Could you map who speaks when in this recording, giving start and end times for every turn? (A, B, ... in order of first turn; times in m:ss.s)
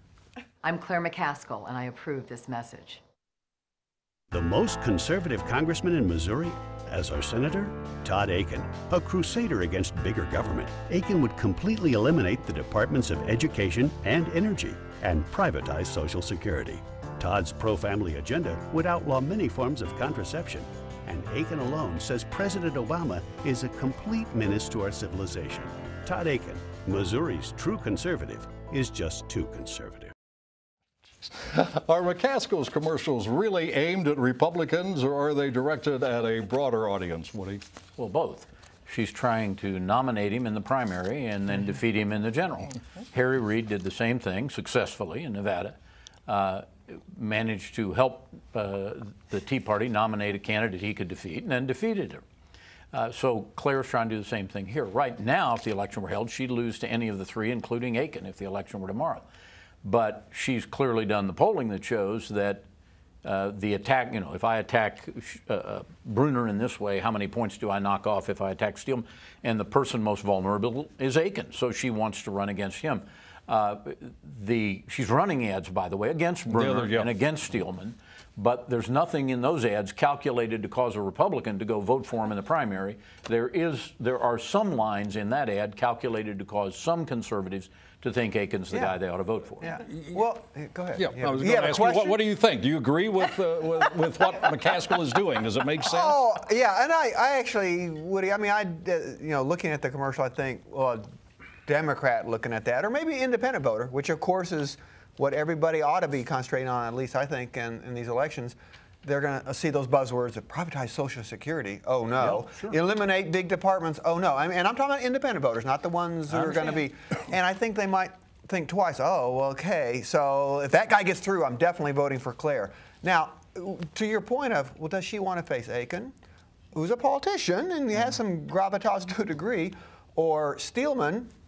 0:00.6-0:03.0 A
0:04.3-0:30.1 B
0:31.3-0:37.6 C
0:38.0-0:45.8 D
0:46.3-0:52.2 D
0:52.9-0:59.2 D
0:59.8-1:02.6 D
1:03.2-1:29.7 D
1:16.5-1:17.1 C
1:28.7-1:29.0 E
1:29.6-1:32.2 E
1:31.0-1:36.2 C
1:35.8-1:41.0 E
1:41.7-2:06.1 E
2:06.7-2:11.3 E